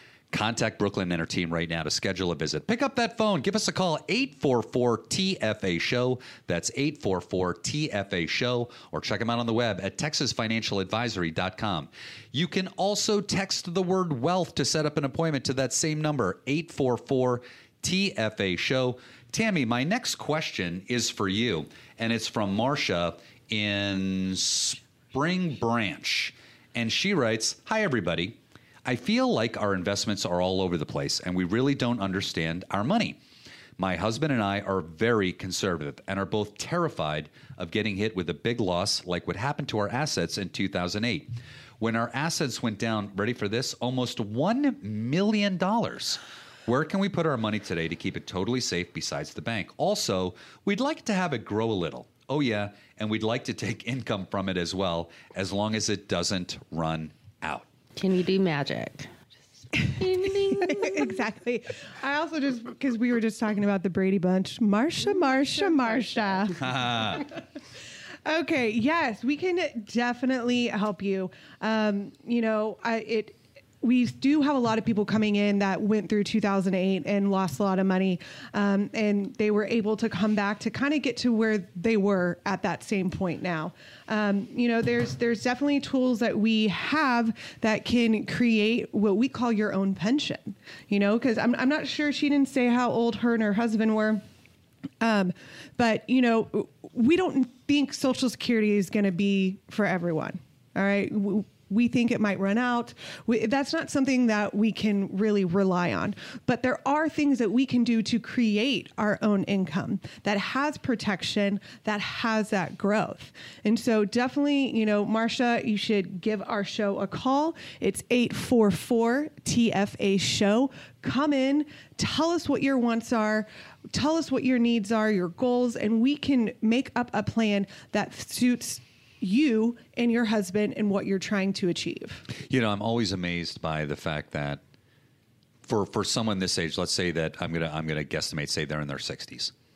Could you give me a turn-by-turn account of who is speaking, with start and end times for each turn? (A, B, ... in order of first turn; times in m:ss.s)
0:00.3-0:33.2 A
0:33.8-0:57.7 A
0:58.0-0:59.1 B
0:59.7-1:01.2 B
1:00.5-1:06.7 C
1:06.5-1:07.3 A
1:08.2-1:34.2 C
1:35.0-2:12.2 C
2:12.4-2:14.6 A
2:15.6-2:19.5 A